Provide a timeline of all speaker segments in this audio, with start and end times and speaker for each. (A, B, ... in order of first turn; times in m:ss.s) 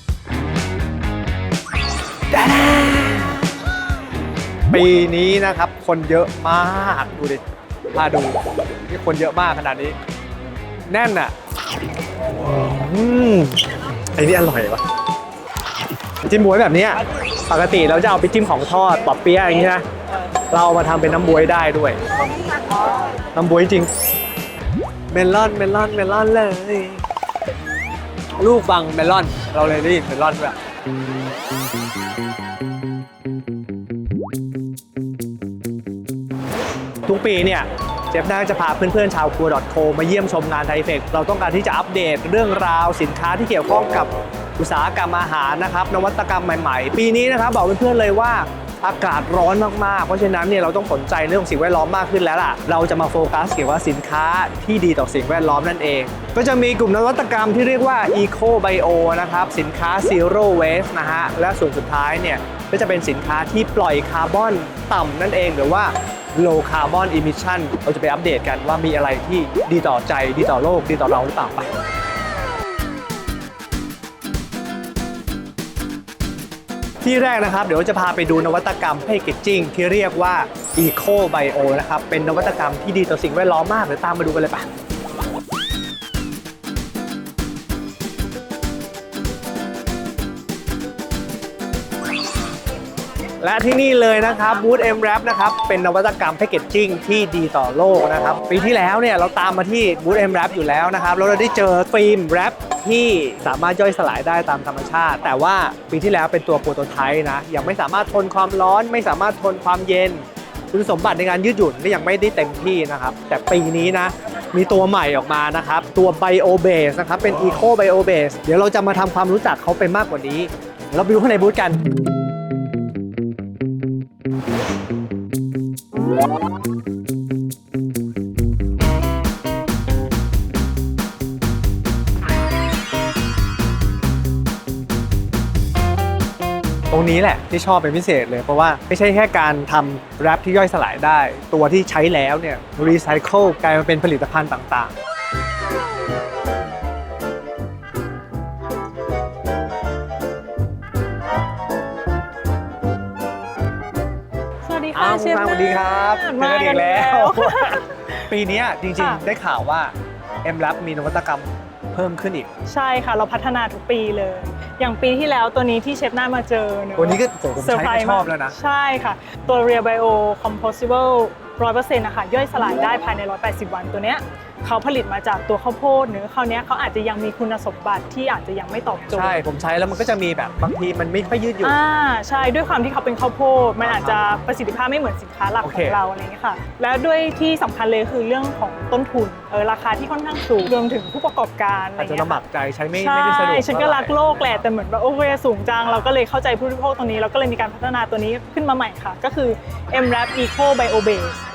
0:02.3-0:03.5 A
0:04.7-0:07.4 A
0:07.9-0:10.0 A
0:10.9-0:11.3 A
0:12.3-0:14.8 A
0:16.2-0:19.8 A
0:20.5-0:22.0 A
0:23.3-0:23.9 A
0:25.1-0:27.0 A
0:28.4-0:30.6 A
0:37.0-1:11.7 A
1:17.0-1:24.7 A
1:33.4-2:01.8 A
2:16.9-2:24.9 A
2:34.6-2:38.3 B
2:34.9-2:42.5 A
2:39.0-2:39.2 B
2:42.7-2:59.4 B
2:47.0-2:48.6 A
2:59.1-3:01.8 A
3:01.6-3:12.4 B
3:03.8-3:04.2 A
3:05.6-3:06.0 A
3:12.0-3:14.2 A
3:12.9-3:21.4 B